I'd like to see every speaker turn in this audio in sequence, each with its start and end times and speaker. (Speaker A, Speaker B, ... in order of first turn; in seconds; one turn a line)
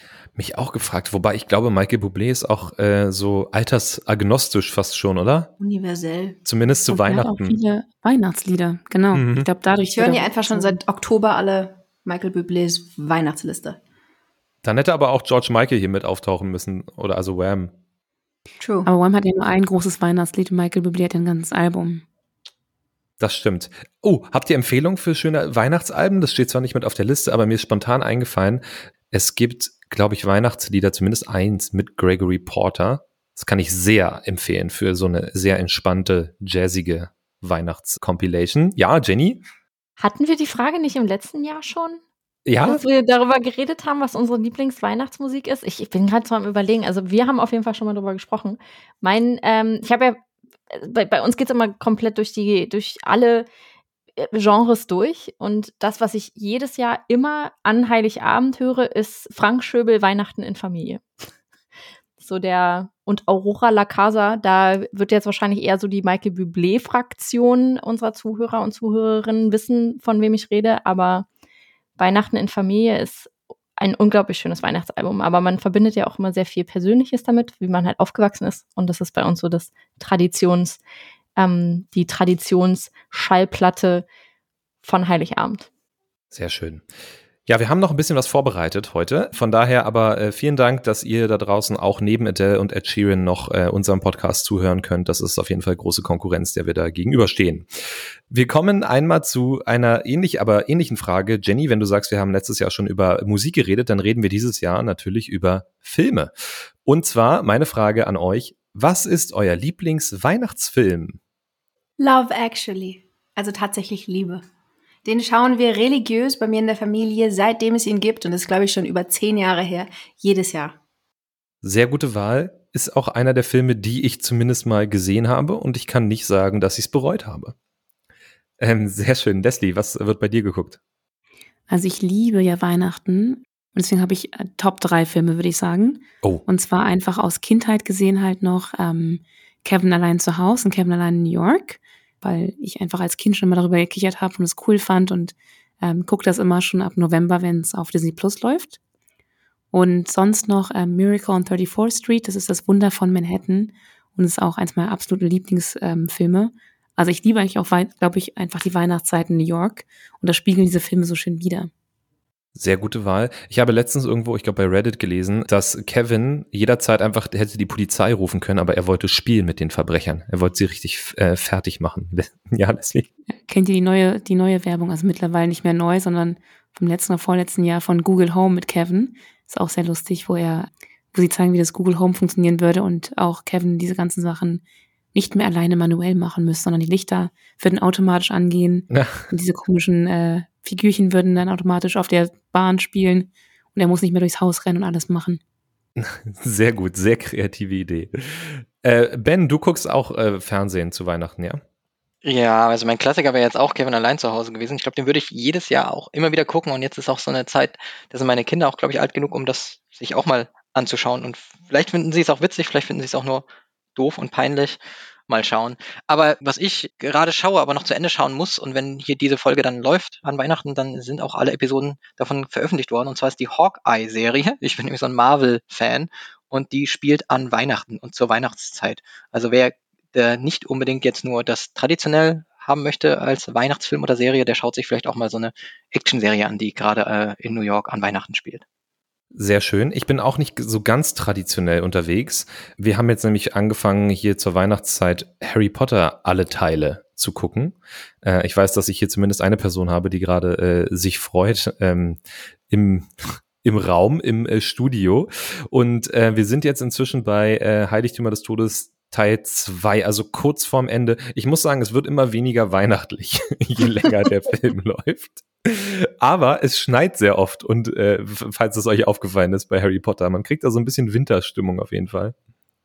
Speaker A: 0.4-5.5
Speaker B: 5.6-6.4
Speaker A: 6.5-7.6
Speaker C: 6.9-10.8
Speaker A: 9.1-9.5
Speaker B: 9.9-13.8
Speaker A: 14.6-17.7
Speaker B: 18.6-18.9
Speaker C: 18.9-22.0
Speaker A: 23.2-39.4
Speaker D: 40.0-42.0
Speaker A: 42.5-42.8
Speaker D: 42.6-53.5
Speaker D: 54.2-61.0
Speaker D: 62.2-71.3
Speaker D: 72.0-80.8
Speaker D: 81.4-84.1
Speaker D: 84.8-85.7
Speaker A: 86.3-86.8
Speaker A: 87.5-97.7
Speaker A: 98.3-106.3
Speaker A: 106.8-111.2
Speaker B: 112.0-114.4
Speaker B: 115.0-120.8
Speaker A: 121.6-127.5
Speaker A: 128.6-130.8
Speaker C: 131.7-148.8
Speaker C: 149.7-161.7
Speaker A: 162.6-173.1
Speaker C: 173.5-195.4
Speaker A: 188.9-189.3
Speaker A: 196.0-201.6
Speaker E: 202.2-213.4
Speaker E: 214.0-214.8
Speaker E: 215.3-238.6
Speaker A: 239.3-272.3